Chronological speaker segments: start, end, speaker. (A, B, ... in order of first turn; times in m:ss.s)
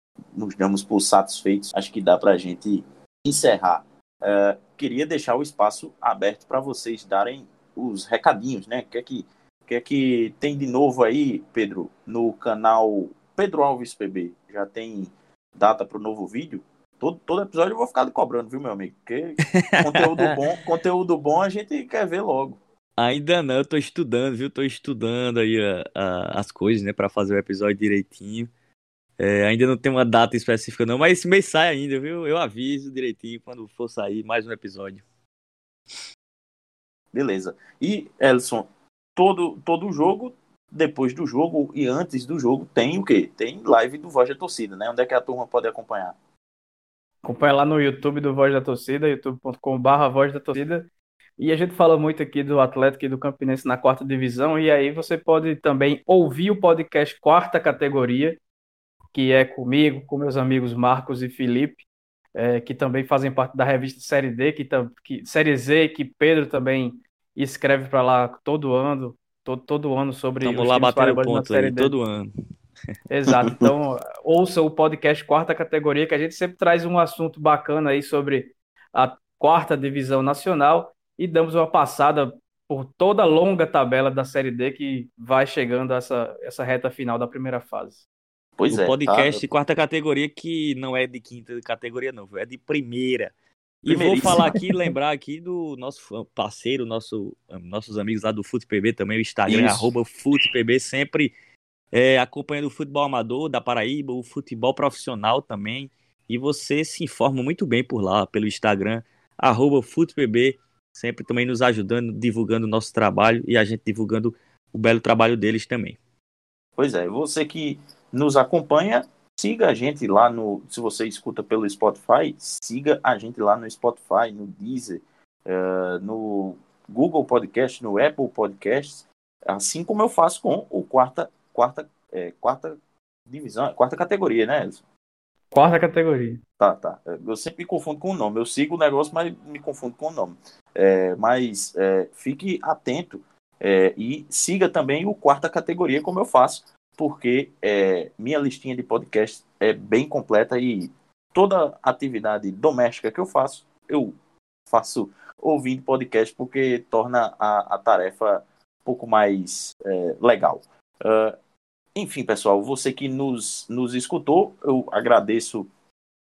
0:00.4-0:22.6 A
0:19.6-0:20.4 B
0:23.0-0:28.5 B
0:29.2-0:35.0 B
0:37.1-0:46.2 A
0:47.2-0:50.9 C
0:51.4-0:58.4 C
0:59.1-1:01.8 C
1:02.4-1:11.9 C
1:10.4-1:12.3 B
1:13.1-1:28.0 C
1:28.6-1:29.4 A
1:28.7-1:41.3 B
1:33.9-1:34.5 A
1:39.5-1:39.9 A
1:41.9-1:56.0 B
1:56.8-2:12.8 A
2:13.3-2:14.8 A
2:15.5-2:16.4 C
2:16.6-2:34.2 A
2:34.7-2:41.4 A
2:42.0-2:45.7 A